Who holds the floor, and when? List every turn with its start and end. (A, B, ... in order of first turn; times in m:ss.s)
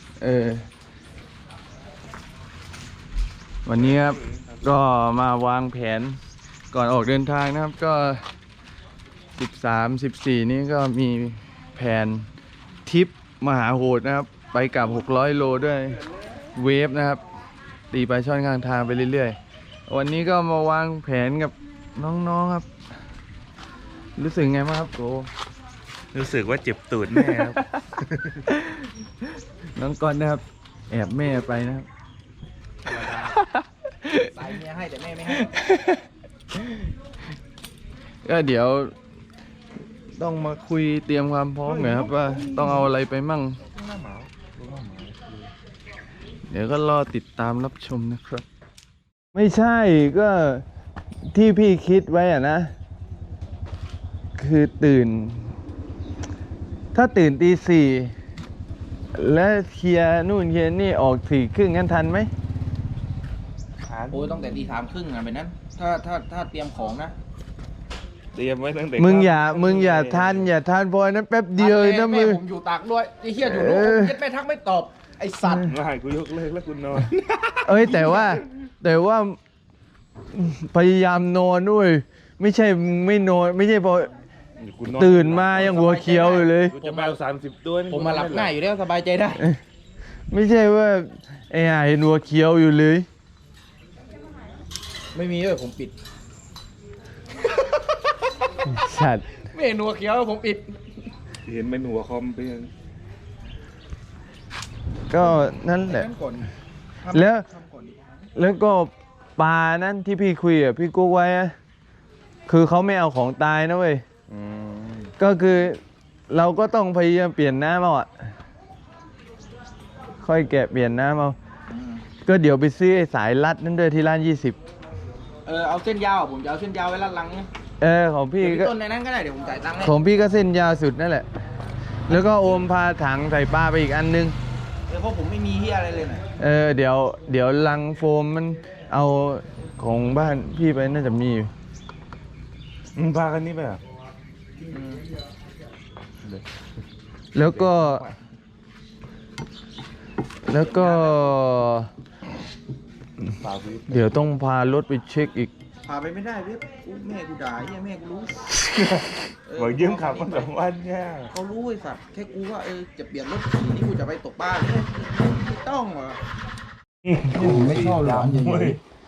0:00.2-0:00.7 A
0:03.6-0:06.2 A
0:03.7-0:04.7 B
0:06.7-0:08.2 A
0:09.4-0:12.3 A
0:12.9-0:16.0 A
0:15.7-0:16.5 B
0:16.6-0:17.2 A
0:17.9-0:19.4 A
0:19.9-0:22.7 A
0:24.2-0:25.3 A
0:26.1-0:28.4 B
0:27.1-0:27.8 A
0:28.5-0:28.9 A
0:29.8-0:31.9 A
0:32.9-0:33.4 C
0:33.3-0:34.3 A
0:34.2-0:35.5 C
0:35.4-0:36.0 A
0:38.2-0:38.9 A
0:40.2-0:43.6 A
0:41.7-0:42.0 B
0:41.8-0:42.8 C
0:43.7-0:45.1 C
0:46.5-0:48.4 A
0:49.3-0:50.6 A
0:51.3-0:52.7 A
0:54.4-0:55.6 A
0:56.9-0:58.2 A
0:59.1-1:02.3 A
1:03.9-1:04.5 B
1:04.1-1:07.2 C
1:08.4-1:10.5 B
1:09.0-1:12.4 A
1:11.6-1:15.7 C
1:13.4-1:14.2 A
1:15.7-1:17.1 B
1:17.1-1:18.3 C
1:17.6-1:19.4 A
1:20.3-1:24.1 A
1:24.6-1:25.8 B
1:25.0-1:26.7 A
1:25.6-1:27.2 C
1:26.7-1:28.6 B
1:27.9-1:29.4 C
1:30.3-1:33.1 A
1:35.1-1:36.0 C
1:38.7-1:39.2 A
1:39.5-1:40.8 C
1:41.5-1:42.7 B
1:45.1-1:46.1 A
1:45.2-1:46.5 C
1:47.0-1:48.3 C
1:47.1-1:47.4 A
1:48.4-1:51.6 A
1:52.5-1:54.0 A
1:54.3-1:55.1 C
1:55.2-1:58.1 A
2:00.2-2:01.4 A
2:01.7-2:02.0 C
2:02.3-2:04.6 A
2:05.5-2:07.5 C
2:07.8-2:08.7 A
2:08.4-2:10.0 C
2:09.8-2:11.3 A
2:12.1-2:12.4 C
2:12.1-2:14.4 A
2:14.9-2:16.2 C
2:16.4-2:21.5 A
2:23.0-2:23.8 B
2:24.6-2:25.0 C
2:27.3-2:28.0 A
2:27.4-2:28.2 B
2:30.5-2:31.9 A
2:30.5-2:31.3 C
2:33.4-2:34.0 B
2:33.9-2:35.5 A
2:35.8-2:38.4 C
2:38.6-2:41.3 B
2:39.5-2:40.5 C
2:41.3-2:46.2 C
2:47.0-2:48.8 B
2:47.3-2:48.8 C